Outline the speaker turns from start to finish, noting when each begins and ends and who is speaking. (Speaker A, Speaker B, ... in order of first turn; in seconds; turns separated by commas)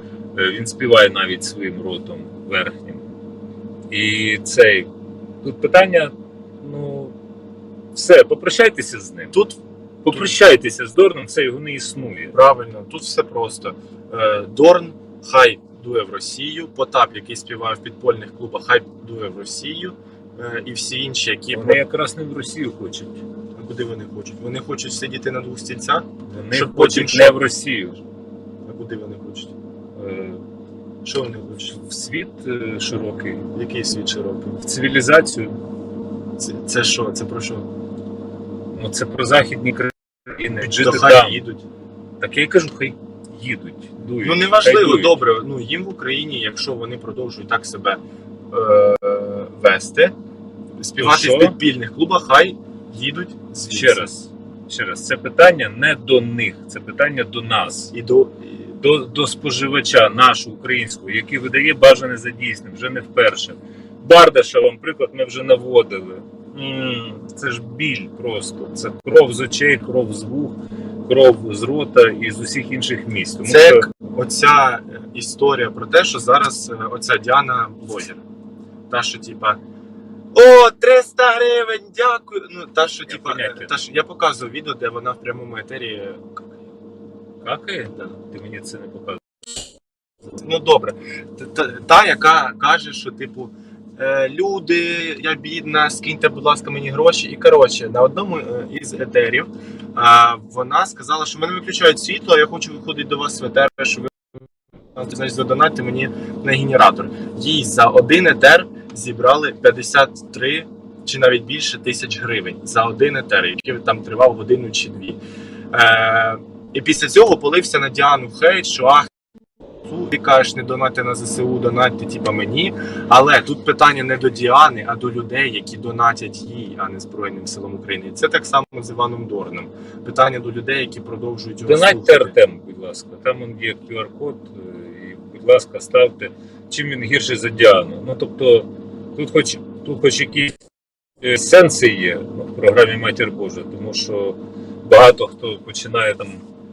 Speaker A: 0.3-3.0, Speaker A: 3.9-4.9, Speaker A: 5.4-7.2, Speaker A: 7.9-9.3, Speaker B: 9.3-9.6, Speaker A: 10.0-12.3, Speaker B: 12.3-21.8, Speaker A: 21.5-23.2, Speaker B: 23.6-27.4, Speaker A: 26.3-28.0, Speaker B: 28.7-29.5, Speaker A: 29.9-30.4, Speaker B: 31.0-31.7, Speaker A: 31.6-33.5, Speaker B: 33.5-34.6, Speaker A: 34.6-35.6, Speaker B: 36.4-37.7, Speaker A: 38.7-41.4, Speaker B: 40.6-41.6, Speaker A: 42.2-45.2, Speaker B: 44.2-48.0, Speaker B: 48.5-50.1, Speaker B: 50.8-54.1, Speaker A: 51.0-51.6, Speaker A: 53.7-57.9, Speaker B: 57.9-58.8, Speaker A: 58.8-70.5, Speaker A: 71.1-73.8, Speaker B: 73.4-78.2, Speaker B: 78.9-79.6, Speaker B: 80.3-86.6, Speaker A: 83.1-83.7, Speaker A: 87.4-89.2, Speaker B: 90.3-104.2, Speaker B: 105.0-115.2, Speaker B: 115.7-119.1, Speaker B: 119.8-132.3, Speaker A: 131.7-140.6, Speaker A: 141.2-146.4